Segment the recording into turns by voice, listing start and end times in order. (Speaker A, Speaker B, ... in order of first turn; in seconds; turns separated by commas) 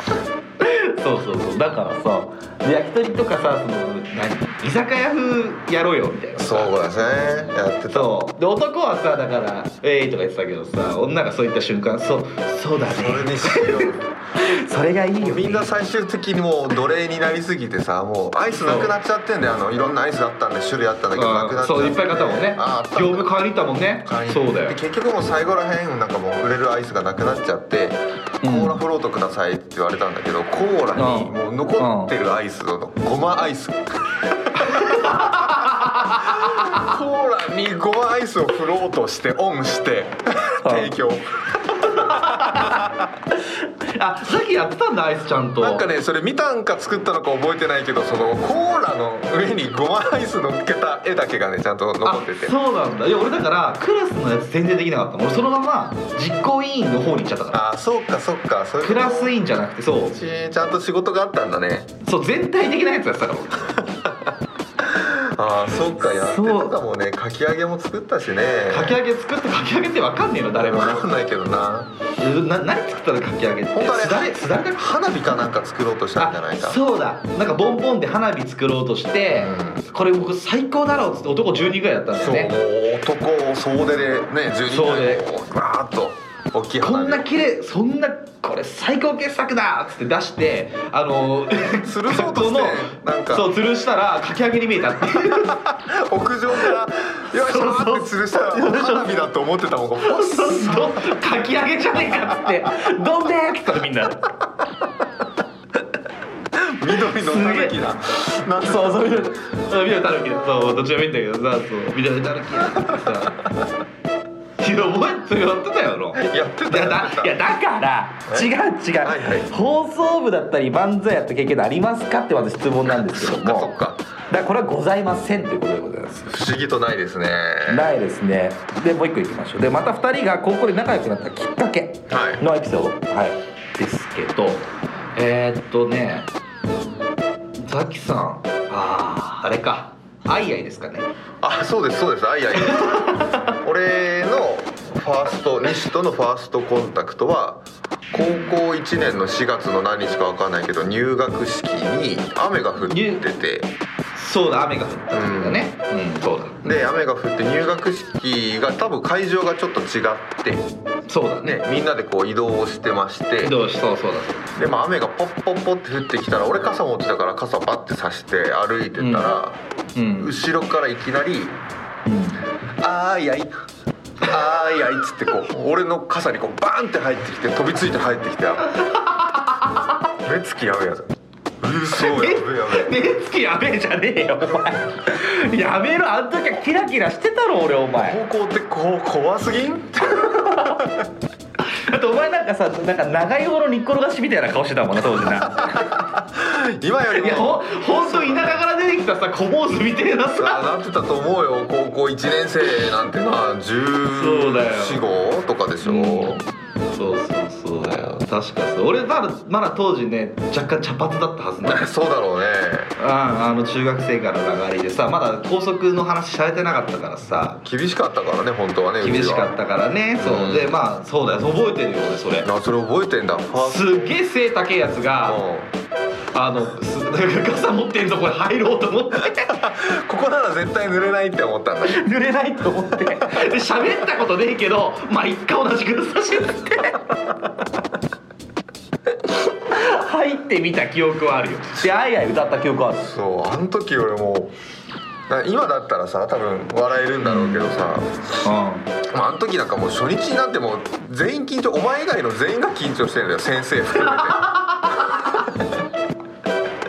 Speaker A: 0.6-6.8, Speaker B: 6.4-8.1, Speaker A: 7.9-15.7, Speaker B: 12.9-14.1, Speaker B: 15.2-23.3, Speaker A: 18.5-18.9, Speaker A: 21.1-24.8, Speaker B: 24.0-43.1, Speaker A: 28.4-28.8, Speaker A: 30.9-32.1, Speaker A: 34.5-36.9, Speaker A: 40.6-40.9, Speaker A: 41.8-45.9, Speaker B: 45.6-52.5, Speaker A: 52.0-57.6, Speaker B: 57.5-59.4, Speaker A: 58.8-60.2, Speaker B: 60.1-61.9, Speaker A: 62.0-63.9, Speaker B: 64.0-69.0, Speaker A: 66.0-66.8, Speaker A: 68.7-71.1, Speaker B: 70.5-71.9, Speaker A: 72.2-74.9, Speaker B: 73.7-76.8, Speaker A: 76.2-82.5, Speaker B: 79.3-79.9, Speaker B: 82.2-87.2, Speaker A: 84.7-85.2, Speaker A: 86.8-95.6, Speaker B: 91.8-93.5, Speaker B: 95.0-101.2, Speaker A: 97.3-99.1, Speaker A: 100.0-104.3, Speaker B: 106.5-109.3, Speaker A: 107.0-107.8, Speaker A: 108.5-113.4, Speaker B: 112.7-113.6, Speaker A: 114.6-123.7, Speaker B: 116.1-117.3, Speaker B: 119.0-119.5, Speaker B: 122.9-124.0, Speaker A: 124.3-126.3, Speaker B: 126.3-127.9, Speaker A: 127.7-136.3, Speaker B: 132.1-132.4, Speaker A: 137.6-141.1, Speaker B: 141.4-153.7, Speaker A: 142.6-143.5, Speaker A: 148.1-148.6, Speaker A: 152.9-153.2, Speaker A: 154.2-156.6, Speaker B: 155.1-155.6, Speaker B: 156.6-160.7, Speaker A: 161.1-161.6, Speaker B: 161.4-163.6, Speaker A: 163.4-164.5, Speaker B: 164.6-169.6, Speaker A: 169.0-169.3, Speaker A: 170.0-170.3, Speaker B: 170.2-171.6, Speaker A: 172.1-172.4, Speaker B: 172.8-173.5, Speaker B: 174.2-178.7, Speaker A: 178.7-179.9, Speaker B: 180.2-183.0, Speaker A: 181.9-188.2, Speaker B: 188.0-191.1, Speaker A: 190.2-190.8, Speaker A: 191.7-195.9, Speaker B: 195.3-198.6, Speaker A: 197.1-200.6, Speaker B: 200.4-206.4, Speaker A: 204.1-205.1, Speaker A: 205.8-211.8, Speaker B: 207.8-208.3, Speaker B: 211.7-212.9, Speaker A: 213.0-217.6, Speaker B: 217.6-219.6, Speaker A: 219.0-222.5, Speaker B: 220.2-220.8, Speaker B: 222.4-224.2, Speaker A: 223.5-225.4, Speaker B: 225.3-225.7, Speaker A: 226.3-229.6, Speaker B: 229.5-232.0, Speaker A: 231.8-237.1, Speaker B: 233.2-233.5, Speaker A: 239.3-243.1, Speaker B: 243.0-244.5, Speaker B: 245.3-248.4, Speaker A: 247.2-247.7, Speaker A: 248.4-248.9, Speaker B: 249.1-254.6, Speaker A: 254.0-255.4, Speaker B: 255.1-255.8